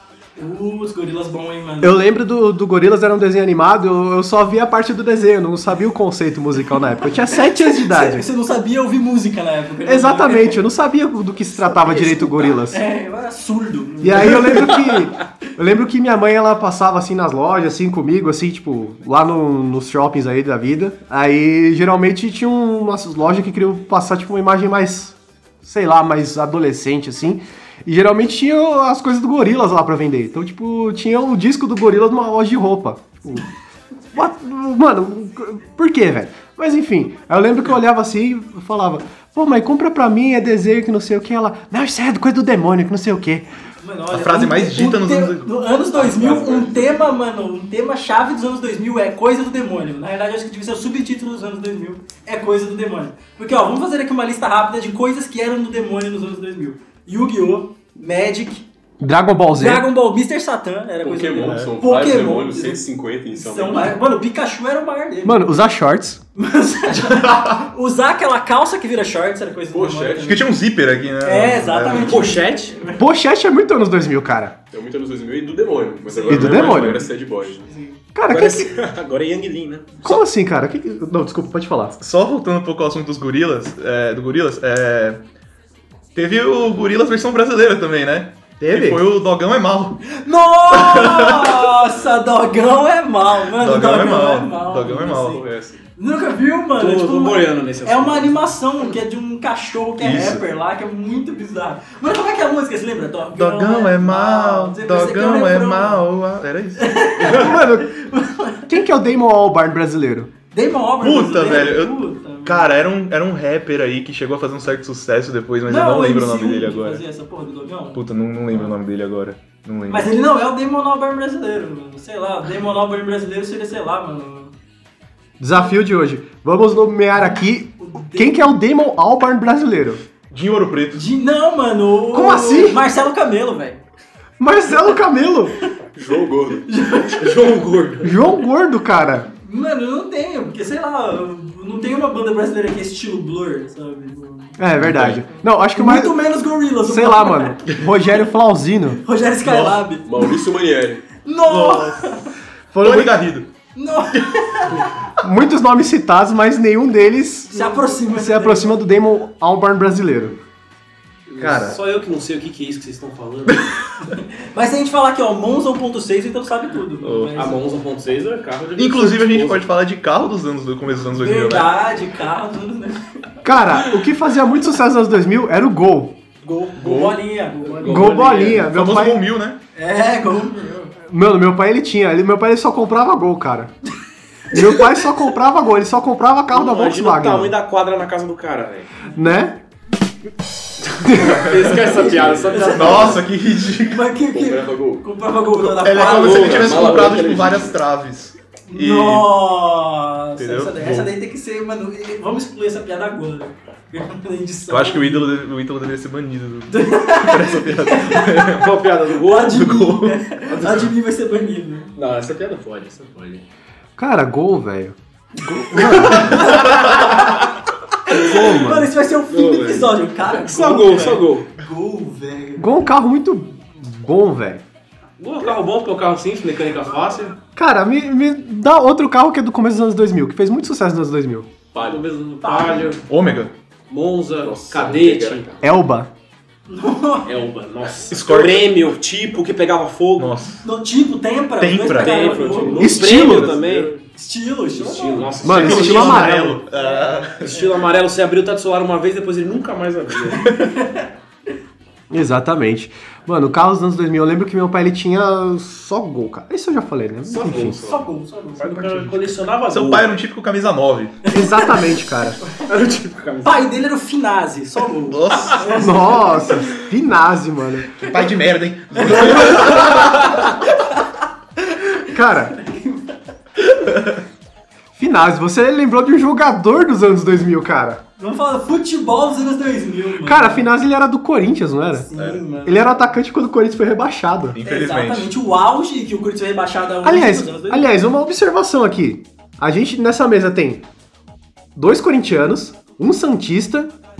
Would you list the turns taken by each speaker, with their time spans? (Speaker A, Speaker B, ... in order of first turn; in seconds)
Speaker A: 0.4-2.0, 7.3-10.6, 11.7-14.9, 43.8-58.6, 59.6-65.5, 66.3-70.5, 71.2-73.0, 76.1-77.1, 77.7-78.0, 90.1-95.4, 96.0-106.1, 106.8-108.7, 110.5-112.8, 115.7-118.7, 119.9-124.5, 127.3-128.5, 130.9-133.8, 136.7-137.4, 139.4-144.6, 145.3-147.6, 149.0-150.1, 151.2-152.3, 153.7-154.8, 157.5-158.8, 164.0-167.6, 171.1-173.0, 176.4-178.2, 179.7-180.9, 192.0-193.2, 193.8-197.1, 198.7-205.3, 206.7-208.6, 209.2-211.9, 216.1-217.0, 218.1-222.7, 232.4-232.9, 236.7-237.3, 240.6-242.9, 244.1-247.7, 250.4-251.1, 257.9-259.0, 261.3-261.9, 263.4-266.6, 268.9-271.1, 271.6-273.2, 278.2-280.7, 281.9-283.0, 284.6-287.9
Speaker B: 1.8-8.3, 9.8-12.8, 14.0-33.5, 34.1-43.5, 59.0-59.9, 65.2-66.2, 73.0-74.6, 76.3-77.1, 78.1-78.8, 80.0-82.0, 88.6-89.1, 107.2-107.9, 108.7-110.3, 125.4-130.0, 132.1-132.8, 134.4-135.6, 138.0-139.3, 144.6-149.0, 152.7-153.2, 155.2-160.4, 161.4-161.8, 173.4-176.2, 177.8-179.3, 181.0-183.7, 184.5-187.6, 189.1-189.6, 191.0-191.5, 214.0-216.7, 218.1-218.9, 222.6-224.6, 227.6-231.5, 235.6-236.1, 242.8-243.6, 245.4-246.6, 252.1-257.8, 261.3-262.4, 265.8-268.0, 272.1-272.6, 274.9-278.0, 280.2-284.6, 287.0-290.8, 291.8-293.9
Speaker C: 44.1-45.5, 61.5-61.7, 67.0-67.6, 70.2-72.4, 82.0-85.2, 86.1-90.0, 90.7-91.7, 93.5-95.4, 100.0-100.4, 103.3-107.4, 111.0-117.0, 117.9-120.1, 130.3-131.0, 149.4-149.8, 151.4-152.0, 152.8-153.5, 167.0-167.5, 168.7-171.7, 178.5-179.6, 191.5-191.8, 192.7-194.0, 195.7-199.3, 200.4-201.1, 204.7-210.8, 233.0-233.5, 238.1-238.9, 240.2-240.6, 241.6-242.6, 245.5-247.7, 259.6-261.2, 265.1-265.8, 268.0-270.6, 273.8-274.2, 282.1-282.4, 284.5-285.3
Speaker D: 46.2-46.7, 71.9-72.8, 78.3-80.1, 96.8-98.6, 137.2-138.2, 161.3-163.7, 167.3-169.6, 176.8-178.6, 186.5-188.9, 191.0-193.3, 196.1-197.1, 208.5-209.7, 210.5-210.9, 211.9-213.4, 216.2-217.2, 219.3-221.5, 225.2-227.4, 231.7-233.1, 233.9-235.5, 237.2-240.4, 241.8-244.0, 244.7-246.4, 247.4-250.4, 257.4-258.0, 258.5-260.2, 262.7-263.7
Speaker E: 61.0-64.0, 69.7-70.5, 74.7-77.7, 95.2-95.8, 135.9-136.7, 144.8-145.2, 150.0-151.1, 191.9-192.7, 194.3-195.1, 195.9-197.8, 231.7-233.0, 234.4-235.6, 242.8-244.0, 245.2-245.7, 257.2-258.1